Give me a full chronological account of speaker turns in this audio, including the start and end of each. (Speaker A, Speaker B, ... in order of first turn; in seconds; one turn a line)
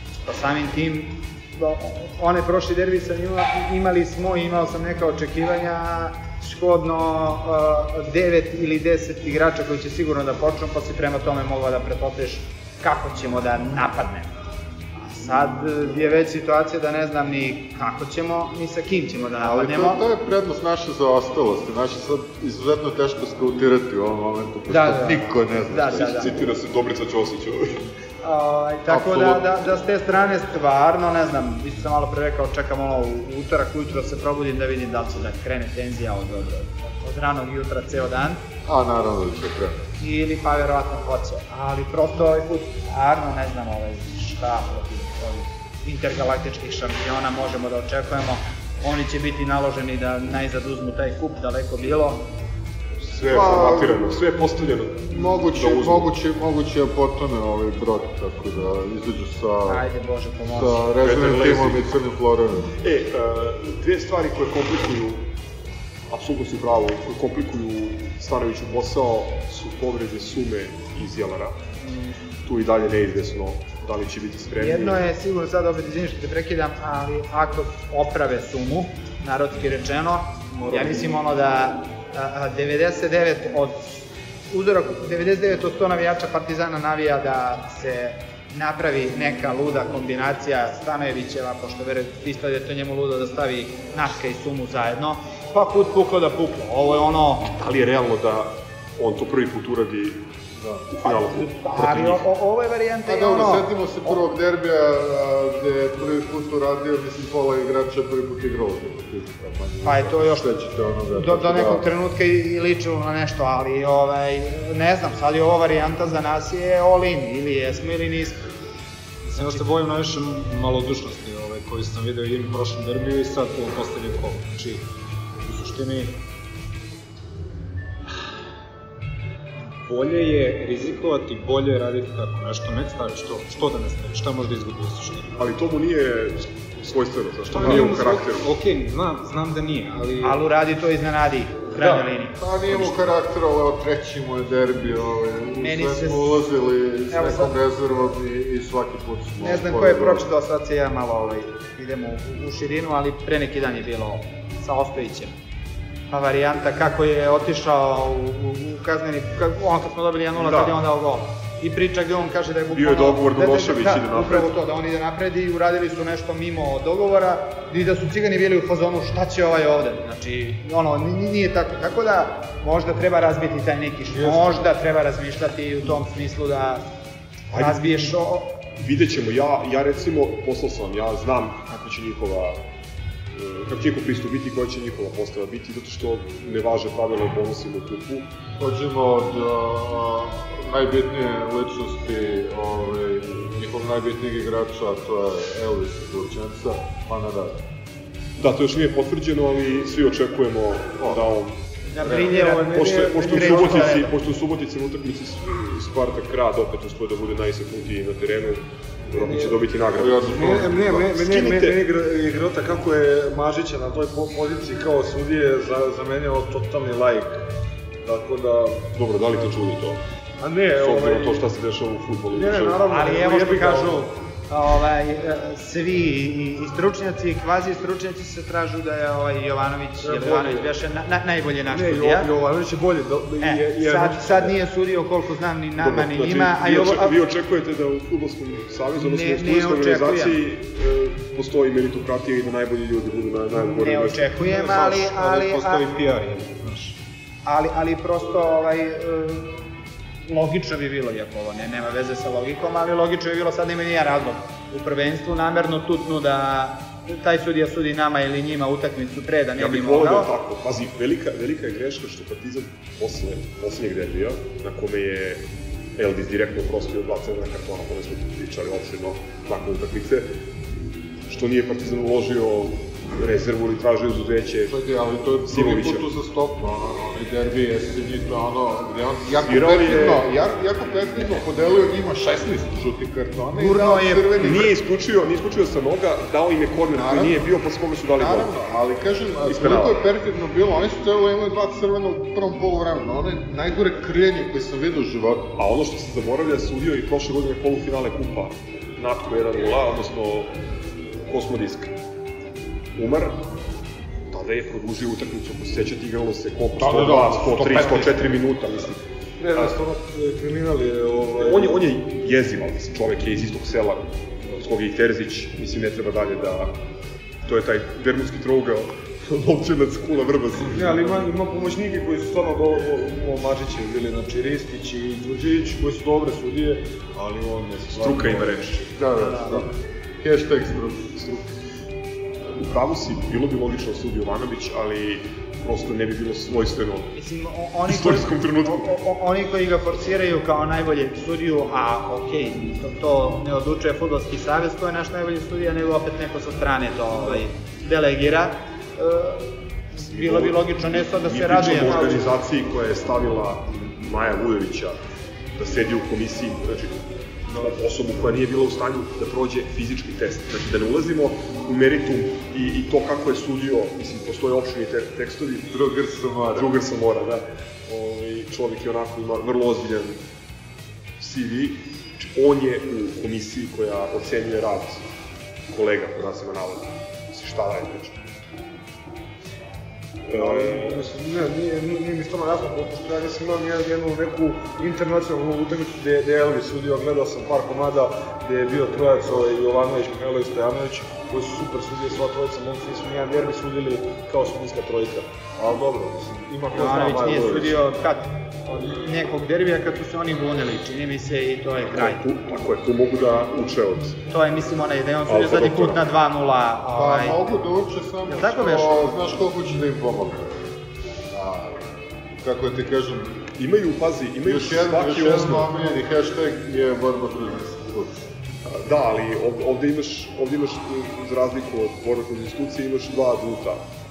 Speaker A: 0.2-14.3
Speaker A: 15.0-20.0
Speaker B: 19.4-26.5
Speaker A: 24.7-26.4
Speaker C: 26.0-27.9
Speaker A: 28.2-38.4
Speaker B: 28.9-29.6
Speaker B: 38.6-39.9
Speaker A: 40.0-52.2
Speaker C: 53.0-56.1
Speaker B: 53.2-54.1
Speaker B: 55.1-59.9
Speaker A: 59.7-60.9
Speaker B: 60.5-62.8
Speaker C: 61.0-61.9
Speaker C: 62.8-65.3
Speaker C: 66.1-71.6
Speaker C: 72.4-75.0
Speaker A: 74.5-97.5
Speaker C: 97.4-100.2
Speaker B: 100.6-100.9
Speaker C: 100.9-102.2
Speaker A: 101.0-104.2
Speaker B: 103.0-111.9
Speaker A: 109.8-110.5
Speaker A: 111.1-118.4
Speaker D: 119.2-124.8
Speaker A: 119.3-119.7
Speaker D: 125.4-126.2
Speaker D: 129.8-135.4
Speaker C: 135.3-138.5
Speaker D: 137.5-140.4
Speaker A: 140.2-142.4
Speaker B: 141.8-150.2
Speaker A: 145.6-146.4
Speaker A: 147.1-147.5
Speaker A: 149.4-155.3
Speaker A: 156.1-176.9
Speaker C: 160.3-160.8
Speaker C: 162.7-164.5
Speaker C: 177.5-178.2
Speaker A: 177.5-178.6
Speaker C: 178.8-182.6
Speaker C: 183.3-188.3
Speaker B: 188.6-197.6
Speaker C: 198.4-201.6
Speaker B: 201.0-201.3
Speaker A: 201.9-204.1
Speaker E: 202.1-204.1
Speaker C: 202.5-211.8
Speaker E: 209.1-209.7
Speaker B: 209.9-210.7
Speaker E: 210.2-217.4
Speaker E: 218.0-218.9
Speaker C: 218.9-220.0
Speaker E: 220.4-221.5
Speaker C: 220.8-222.8
Speaker E: 222.3-224.0
Speaker A: 222.9-232.3
Speaker E: 230.0-230.7
Speaker E: 231.7-234.5
Speaker A: 233.4-237.2
Speaker C: 235.8-244.3
Speaker A: 238.9-240.4
Speaker A: 243.5-245.8
Speaker D: 244.3-247.0
Speaker A: 247.4-249.7
Speaker A: 250.3-260.3
Speaker C: 259.6-270.4
Speaker C: 271.3-274.7
Speaker B: 274.6-284.7
Speaker C: 275.4-276.1
Speaker C: 279.4-280.2
Speaker A: 283.6-284.7
Speaker C: 284.4-288.5
Speaker B: 286.9-287.5
Speaker B: 288.1-295.6
Speaker C: 289.4-290.0
Speaker C: 295.6-300.6
Speaker C: 301.3-301.9
Speaker C: 302.9-303.4
Speaker C: 304.3-309.0
Speaker B: 306.8-308.3
Speaker E: 309.4-311.8
Speaker C: 311.4-316.8
Speaker C: 317.4-321.3
Speaker E: 320.6-328.7
Speaker C: 327.9-329.0
Speaker B: 328.9-331.2
Speaker A: 329.2-329.7
Speaker C: 331.2-331.5
Speaker C: 332.6-337.1
Speaker A: 337.1-352.3
Speaker C: 337.8-338.9
Speaker C: 350.0-355.0
Speaker C: 355.6-365.7
Speaker B: 365.7-366.7
Speaker C: 366.5-370.2
Speaker C: 371.2-375.0
Speaker C: 375.7-378.2
Speaker C: 380.3-381.0
Speaker E: 380.3-397.8
Speaker A: 396.7-402.2
Speaker C: 401.8-404.2
Speaker A: 404.3-407.4
Speaker C: 405.2-406.0
Speaker B: 406.9-410.5
Speaker A: 408.3-409.2
Speaker B: 411.3-411.8
Speaker B: 412.4-413.5
Speaker C: 413.6-415.7
Speaker B: 414.4-418.2
Speaker C: 418.6-423.8